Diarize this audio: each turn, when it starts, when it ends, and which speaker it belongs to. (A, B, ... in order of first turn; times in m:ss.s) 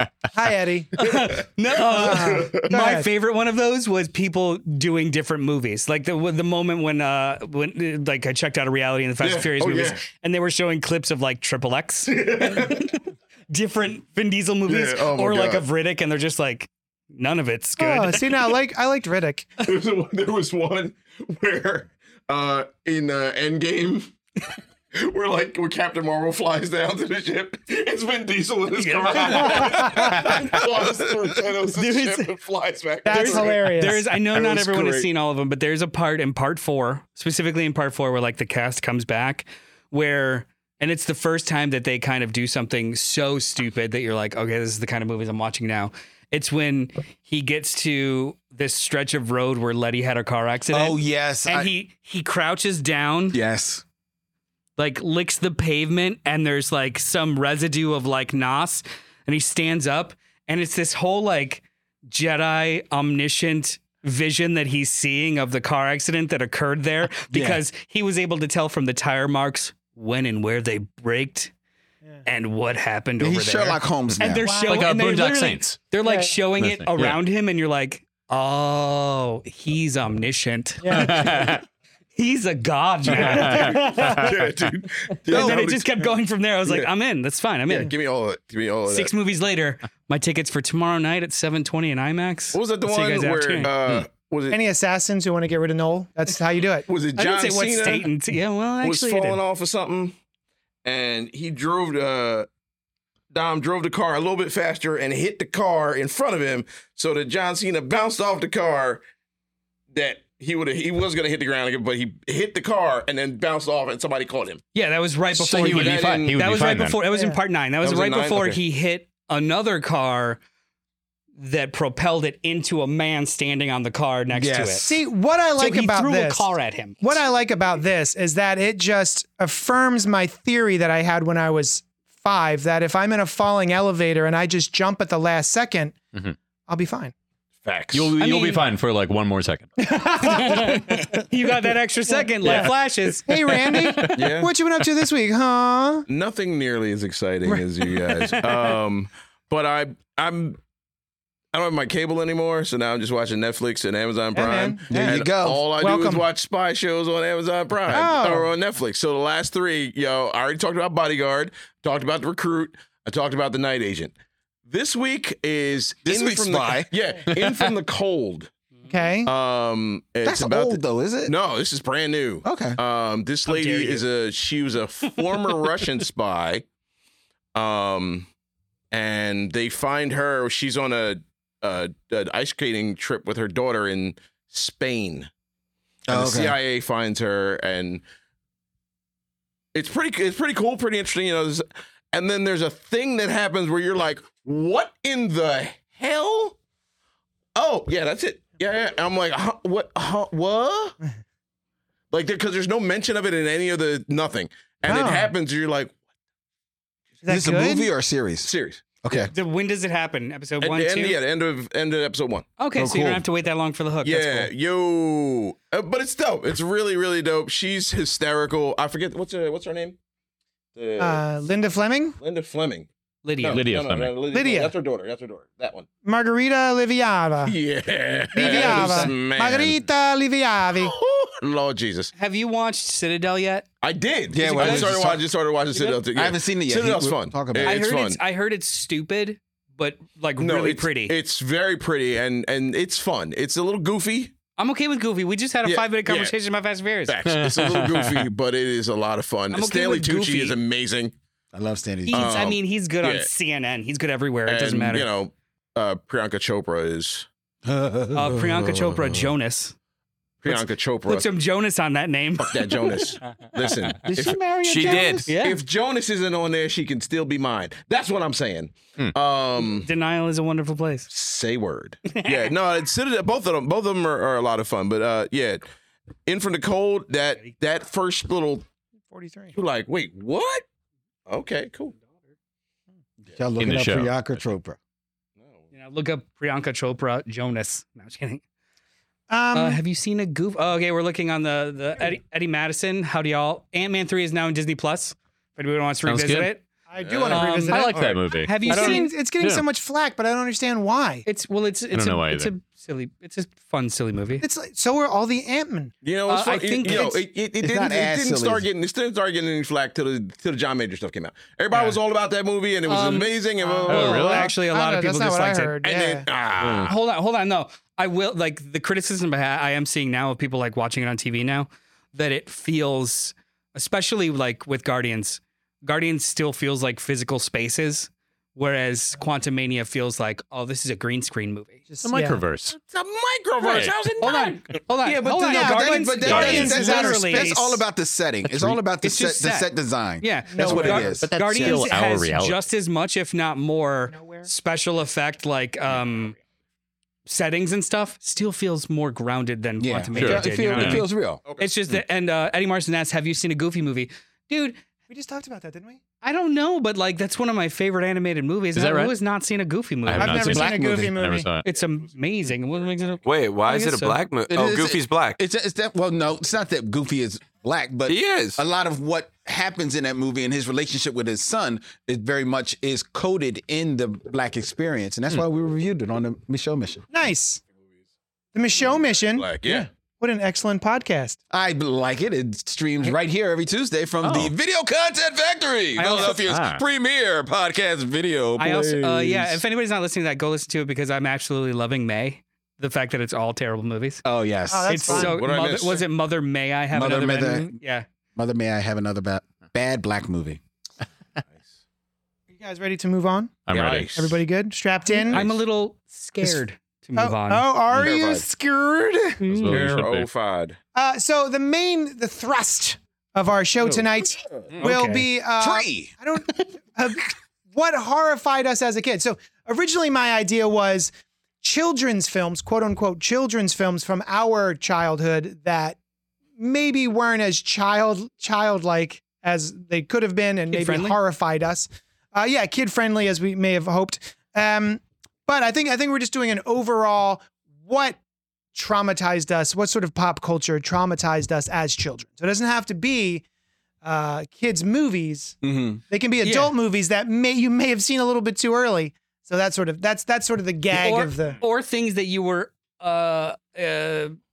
0:00.3-0:00.9 A
0:01.0-0:18.5 B
0:01.0-0:02.7 C
0:01.9-0:03.1 A
0:09.2-0:10.0 C
0:12.1-0:13.0 C
0:14.7-0:15.6 C
0:17.8-0:19.5 A
0:19.6-0:35.1 C
0:28.7-0:30.5 B
0:29.4-0:30.2 A
0:31.7-0:32.3 B
0:33.0-0:34.0 A
0:33.0-0:53.4 B
0:50.7-0:51.7 D
0:53.3-0:53.8 D
0:54.8-1:11.5 B
1:07.3-1:07.6 D
1:12.2-1:21.6 B
1:13.2-1:14.5 D
1:14.4-1:14.9 A
1:14.6-1:15.8 E
1:16.0-1:16.4 A
1:16.6-1:17.2 E
1:20.8-1:21.4 A
1:20.9-1:21.6 E
1:22.2-1:24.2 B
1:23.1-1:24.3 E
1:23.1-1:25.9 C
1:23.4-1:24.3 A
1:25.3-1:27.9 B
1:27.7-1:29.1 C
1:28.9-1:33.7 B
1:32.5-1:34.6 C
1:34.5-1:36.9 A
1:36.9-1:38.1 C
1:37.2-1:39.4 B
1:38.8-1:40.1 C
1:40.8-1:42.5 C
1:43.3-1:49.0 C
1:49.9-1:54.6 C
1:54.7-2:00.4 B
1:55.3-1:57.0 E
1:55.5-1:56.4 C
1:57.1-1:57.4 A
1:57.8-1:58.6 C
2:01.4-2:04.9 B
2:04.3-2:05.0 D
2:04.8-2:06.5 A
2:05.6-2:07.1 B
2:07.0-2:16.0 A
2:16.7-2:17.1 A
2:17.6-2:18.2 C
2:17.9-2:19.9 E
2:18.2-2:18.6 B
2:19.8-2:21.2 A
2:20.2-2:23.4 B
2:22.1-2:26.1 A
2:23.5-2:24.2 E
2:24.1-2:24.5 C
2:26.1-2:30.6 C
2:31.5-2:44.1 C
2:34.3-2:35.2 A
2:34.9-2:35.6 D
2:35.8-2:36.3 A
2:37.9-2:38.5 A
2:44.7-2:48.5 C
2:46.0-2:46.9 D
2:48.9-2:49.3 A
2:49.2-2:56.6 C
2:50.2-2:51.3 D
2:52.4-2:52.8 D
2:53.4-2:54.0 B
2:55.2-2:55.7 B
2:57.5-2:58.3 C
2:58.9-3:05.3 C
3:06.1-3:06.6 D
3:06.1-3:08.0 C
3:09.7-3:16.6 C
3:17.5-3:21.0 C
3:22.1-3:25.9 C
3:24.9-3:25.3 A
3:27.2-3:27.9 A
3:27.3-3:29.3 D
3:28.4-3:29.3 C
3:29.3-3:31.2 B
3:30.6-3:32.5 C
3:32.6-3:34.5 B
3:32.8-3:33.2 D
3:34.0-3:40.0 C
3:40.7-3:41.2 C
3:41.0-3:42.2 A
3:42.2-3:42.9 C
3:43.2-3:43.6 B
3:43.4-3:45.9 C
3:43.5-3:44.1 E
3:44.3-3:44.7 A
3:46.0-3:47.6 A
3:47.4-3:49.9 C
3:48.3-3:50.9 A
3:48.4-3:49.1 B
3:50.7-3:52.1 C
3:52.1-3:53.6 B
3:53.8-3:58.2 C
3:54.3-3:55.3 D
3:54.4-3:54.9 B
3:56.1-3:57.8 D
3:57.6-4:01.1 B
4:00.4-4:04.3 C
4:04.6-4:07.2 B
4:05.6-4:06.3 C
4:07.0-4:11.1 C
4:07.2-4:08.3 E
4:09.5-4:10.6 B
4:11.5-4:12.4 D
4:12.1-4:15.1 B
4:12.1-4:13.3 C
4:14.4-4:17.3 C
4:17.6-4:18.9 D
4:18.1-4:19.7 B
4:20.4-4:21.3 C
4:20.5-4:22.6 B
4:22.4-4:29.9 C
4:24.0-4:25.3 D
4:24.6-4:25.4 F
4:25.3-4:25.6 B
4:29.8-4:31.1 B
4:31.1-4:35.6 C
4:32.1-4:32.5 B
4:36.2-4:38.6 C
4:39.1-4:39.6 A
4:39.5-4:40.6 C
4:41.3-4:41.9 C
4:43.3-4:44.8 D
4:43.6-4:44.3 E
4:45.7-4:48.4 B
4:49.3-4:49.8 A
4:49.5-4:56.6 B
4:56.1-4:56.5 E
4:56.9-5:01.3 A
4:57.0-4:58.4 C
4:57.3-4:59.1 B
4:57.7-4:59.6 E
5:01.2-5:04.4 B
5:01.9-5:02.5 E
5:04.4-5:05.9 A
5:06.0-5:14.2 C
5:06.3-5:07.1 B
5:06.9-5:07.2 A
5:07.6-5:08.7 D
5:12.9-5:13.3 B
5:13.6-5:16.3 A
5:13.9-5:15.8 B
5:13.9-5:14.5 E
5:15.8-5:16.9 C
5:16.6-5:16.9 E
5:16.8-5:31.9 B
5:31.9-5:32.4 A
5:32.0-5:32.7 E
5:32.7-5:35.2 C
5:33.7-5:37.8 B
5:33.7-5:34.1 E
5:35.2-5:41.8 D
5:35.5-5:37.7 A
5:38.5-5:46.4 B
5:40.5-5:41.2 A
5:41.2-5:42.6 E
5:44.1-5:44.5 A
5:47.2-5:54.8 B
5:49.8-5:51.4 D
5:50.2-5:51.0 E
5:55.1-5:56.0 A
5:56.2-6:00.6 B
5:58.7-5:59.2 E
6:00.0-6:01.6 E
6:00.2-6:01.5 A
6:00.4-6:01.2 D
6:01.6-6:04.2 B
6:03.2-6:05.4 F
6:04.5-6:17.0 D
6:08.1-6:08.6 F
6:17.1-6:17.6 A
6:18.5-6:21.4 A
6:19.2-6:19.9 C
6:21.5-6:29.6 D
6:24.2-6:24.5 E
6:26.0-6:26.4 B
6:26.3-6:26.8 E
6:28.6-6:34.2 B
6:34.2-6:35.4 D
6:34.7-6:35.4 A
6:34.9-6:38.0 B
6:35.1-6:36.0 C
6:36.9-6:37.7 D
6:38.4-6:40.6 D
6:42.5-6:43.6 A
6:43.7-6:44.2 E
6:43.7-6:44.4 C
6:44.1-6:45.4 A
6:45.1-6:47.6 B
6:47.2-6:49.4 A
6:47.9-6:48.4 C
6:49.4-6:50.0 B
6:49.5-6:50.3 E
6:49.7-6:50.8 C
6:50.9-7:06.0 A
6:53.9-6:54.7 C
6:54.8-6:55.3 B
6:55.6-6:56.1 D
7:06.6-7:18.2 A
7:10.7-7:11.2 B
7:18.7-7:23.4 A
7:24.0-7:25.6 A
7:25.6-7:26.0 D
7:26.1-7:31.6 A
7:26.4-7:26.7 B
7:30.9-7:34.4 B